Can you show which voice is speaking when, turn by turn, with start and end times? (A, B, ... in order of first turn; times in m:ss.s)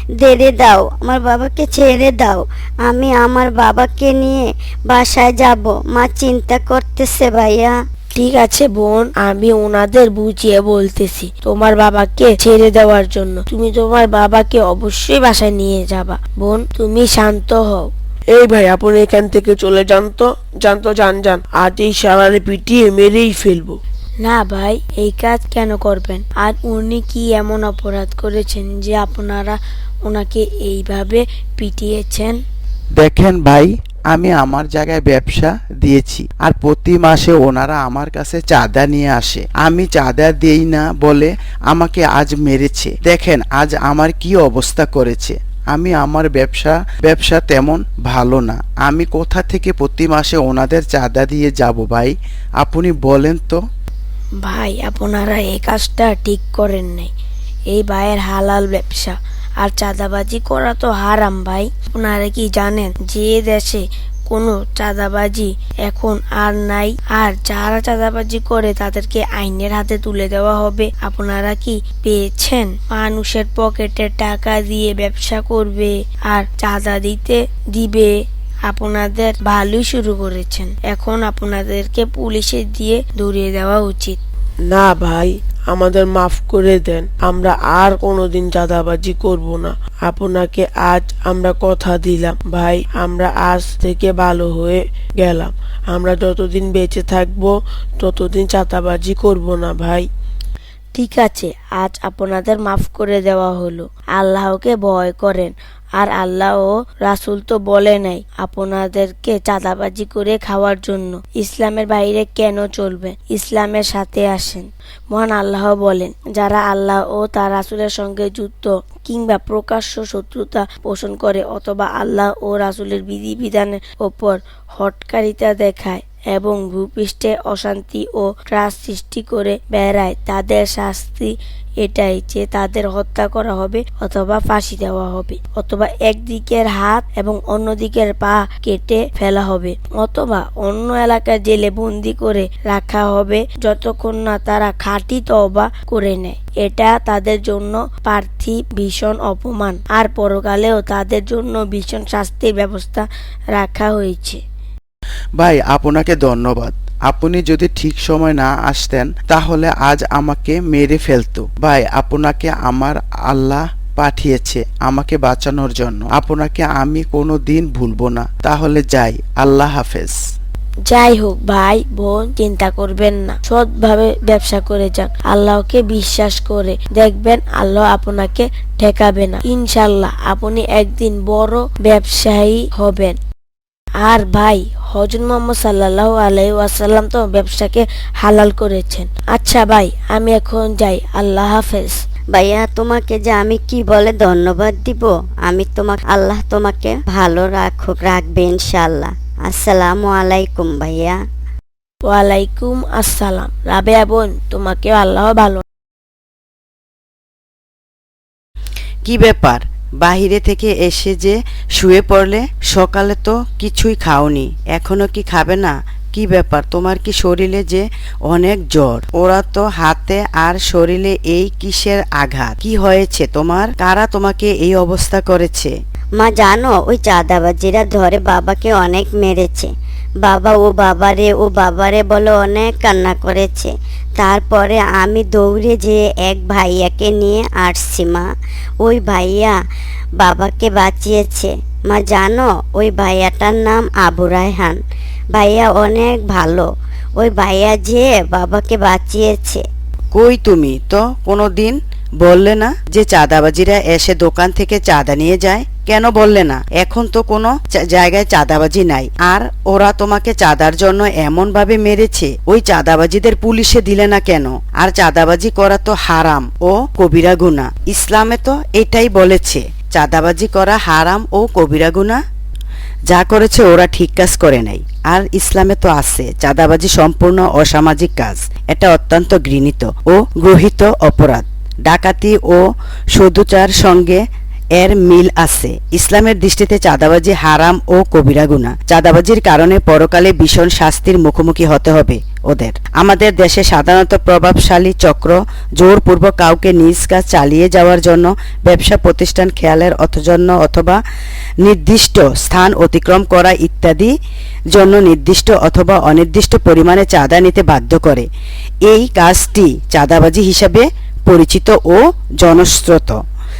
0:00.2-0:07.7 A
0:08.1-0:17.9 B
0:18.3-0:23.8 C
0:24.2-0:32.4 B
0:33.0-0:53.6 D
0:54.4-0:57.1 B
0:57.7-1:18.2 B
1:18.7-1:24.2 B
1:24.7-1:40.1 C
1:40.9-2:34.4 B
2:35.4-2:50.2 D
2:50.9-3:03.2 B
3:04.0-3:12.0 B
3:12.3-3:21.2 A
3:22.0-3:25.6 B
3:29.0-3:45.7 E
3:46.2-3:49.7 A
3:50.2-3:58.3 A
3:58.8-3:59.5 A
4:00.2-4:04.8 A
4:05.3-4:06.7 A
4:07.2-4:09.6 A
4:10.1-4:32.2 E
4:33.1-4:42.6 E
4:43.1-4:44.2 E
4:44.8-5:01.0 E
5:01.6-5:04.1 E
5:04.7-5:08.3 E
5:08.9-5:13.2 E